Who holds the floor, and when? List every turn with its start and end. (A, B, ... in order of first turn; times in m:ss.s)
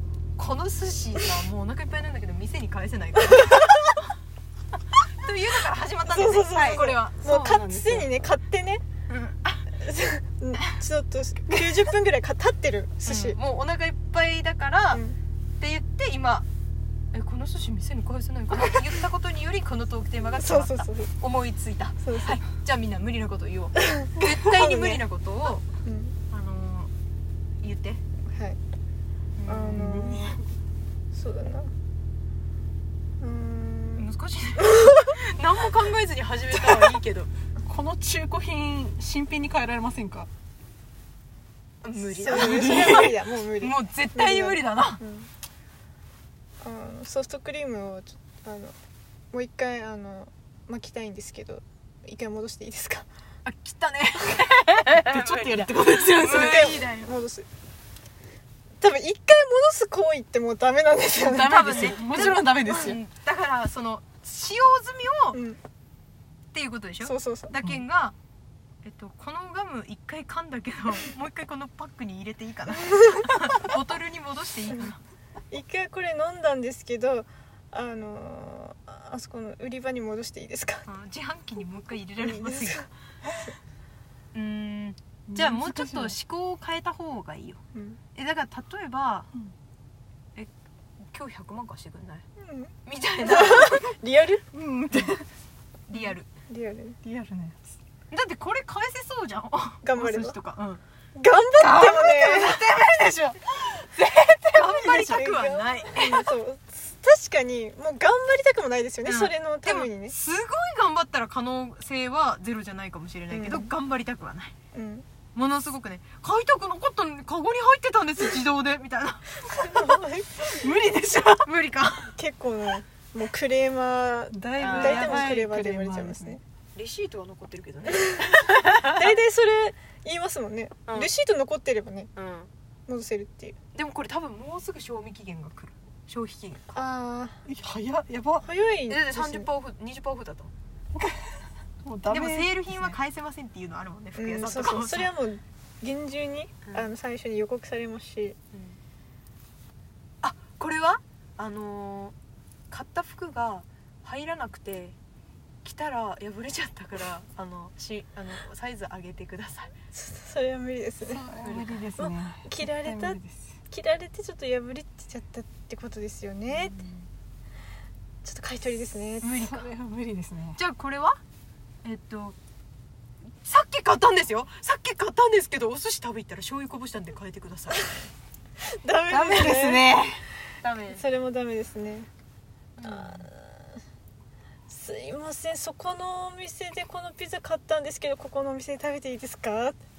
0:00.4-0:04.1 A
0:03.3-0:03.7 B
0:05.2-0:07.6 A
0:06.1-0:08.8 B
0:07.2-0:08.1 C
0:09.1-0:09.7 A
0:09.7-0:13.4 B
0:13.0-0:15.0 A
0:15.6-0:16.5 A
0:17.1-0:25.7 A
0:20.4-0:21.1 B
0:22.0-0:22.4 B
0:23.8-0:25.0 B
0:25.8-0:26.1 B
0:26.3-0:26.9 A
0:27.6-0:28.0 A
0:28.3-0:28.6 B
0:29.4-0:29.9 A
0:29.5-0:30.4 B
0:29.8-0:30.4 C
0:31.1-0:31.7 B
0:33.2-0:35.2 B
0:34.0-0:37.3 A
0:36.6-0:36.9 C
0:37.6-0:40.3 C
0:41.8-0:42.8 A
0:42.0-0:45.3 B
0:42.4-0:43.2 C
0:43.6-0:45.0 A
0:46.6-0:48.8 B
0:49.3-0:53.0 B
0:53.5-0:57.2 A
0:54.9-0:56.8 C
0:56.2-0:57.5 B
0:58.8-1:01.9 B
1:01.2-1:03.0 C
1:01.4-1:05.4 A
1:05.3-1:05.6 B
1:06.5-1:08.2 A
1:07.0-1:07.6 B
1:08.8-1:15.0 A
1:12.7-1:13.2 B
1:15.5-1:20.9 B
1:20.9-1:22.9 A
1:22.2-1:22.9 B
1:24.3-1:27.6 A
1:25.3-1:26.2 C
1:27.7-1:28.0 B
1:28.2-1:29.3 A
1:31.1-1:32.2 A
1:32.4-1:34.4 B
1:32.8-1:34.0 A
1:34.5-1:35.2 C
1:35.9-1:36.3 A
1:36.0-1:37.0 B
1:37.0-1:37.8 C
1:38.1-1:40.8 A
1:39.8-1:40.4 B
1:41.2-1:42.7 B
1:41.6-1:45.2 C
1:44.5-1:46.3 A
1:44.8-1:50.2 B
1:49.0-1:54.5 A
1:53.3-1:53.7 B
1:54.7-1:55.0 B
1:55.4-1:59.4 A
1:59.5-2:00.7 B
2:00.4-2:01.5 C
2:01.4-2:02.2 A
2:02.2-2:06.4 B
2:04.3-2:06.4 C
2:04.6-2:05.4 A
2:06.8-2:09.2 A
2:09.0-2:12.1 B
2:12.2-2:12.5 A
2:12.9-2:13.6 B
2:13.7-2:16.6 A
2:16.7-2:17.4 B
2:17.5-2:18.5 C
2:18.4-2:19.5 B
2:18.9-2:20.5 A
2:21.0-2:23.0 C
2:22.1-2:25.1 A
2:24.2-2:28.4 B
2:26.6-2:26.9 A
2:28.5-2:28.8 A
2:30.2-2:32.1 A
2:32.7-2:35.0 A
2:35.6-2:39.7 A
2:39.9-2:41.3 B
2:41.1-2:43.4 C
2:41.4-2:41.8 A
2:42.0-2:43.2 B
2:43.7-2:46.8 B
2:48.2-2:49.5 B
2:49.2-2:49.6 A
2:49.5-2:50.6 C
2:50.6-2:51.2 A
2:51.8-2:52.4 A
2:53.4-2:58.1 A
2:58.6-3:00.0 B
2:59.1-3:00.2 C
3:00.6-3:01.0 A
3:00.9-3:02.1 B
3:02.8-3:03.3 A
3:02.8-3:03.6 B
3:04.7-3:09.8 B